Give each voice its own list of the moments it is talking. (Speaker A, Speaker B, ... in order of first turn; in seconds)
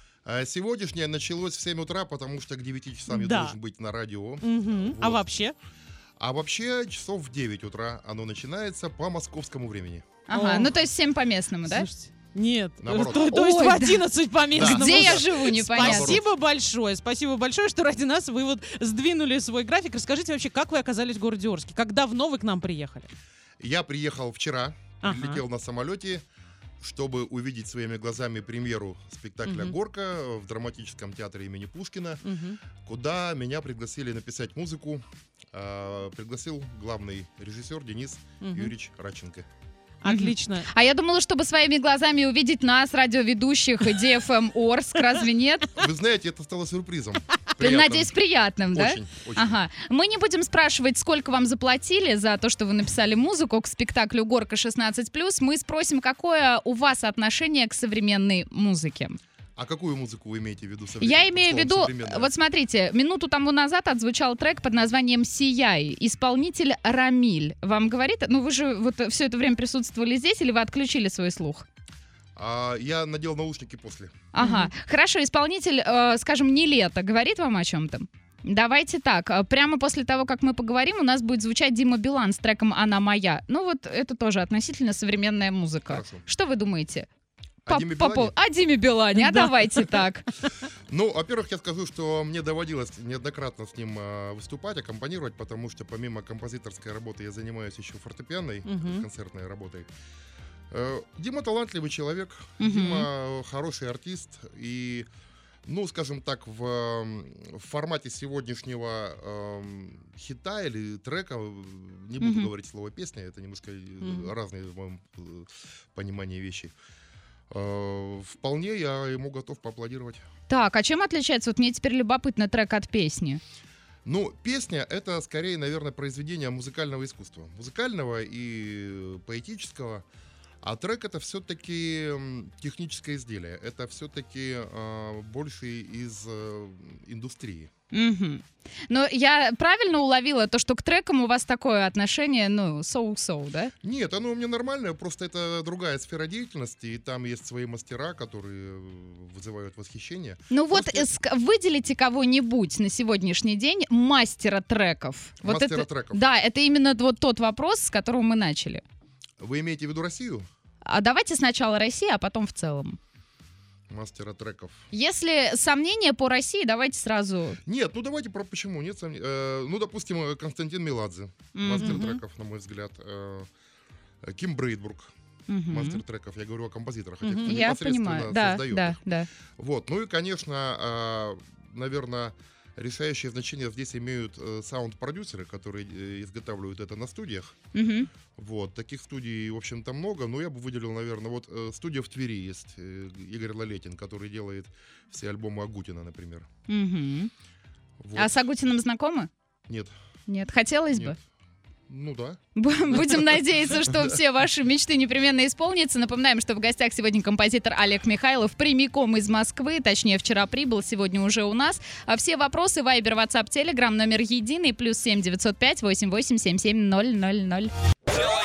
Speaker A: 0.2-5.2, 6.2-10.2, 12.8-13.3, 14.5-16.2, 23.6-26.2, 26.8-32.2, 32.8-39.5, 45.7-48.1, 48.7-49.6, 59.6-62.3, 72.3-74.3, 85.9-86.2, 87.7-88.3, 90.9-99.9, 100.7-105.1, 105.7-116.7, 117.5-120.2, 124.0-130.0, 130.6-137.7, 143.8-151.1, 155.4-156.2, 159.4-160.4, 163.9-164.8, 167.6-173.5, 174.2-175.1, 175.7-179.0, 179.6-187.5, 188.3-196.5, 198.0-198.3, 200.9-201.2, 201.9-202.4, 202.9-204.2
Speaker B: 3.1-3.5, 4.4-5.5, 10.3-10.7, 11.6-23.1, 25.0-25.4, 29.4-29.7, 32.2-32.6, 38.4-38.7, 40.0-40.7, 74.4-74.7, 89.1-89.5, 98.6-99.0, 114.0-114.3, 171.8-172.2, 177.2-177.6
Speaker C: 10.3-11.9, 13.3-14.0, 14.6-16.2, 40.0-45.8, 47.6-59.2, 61.0-71.7, 74.3-87.1, 87.7-90.3, 102.6-103.1, 112.2-112.5, 120.5-123.4, 137.9-143.7, 150.5-158.8, 160.8-163.0, 164.9-167.6, 171.5-172.0, 175.5-176.0, 177.4-179.3, 187.7-188.1, 196.7-197.3, 198.2-199.3, 200.3-201.2, 202.6-217.7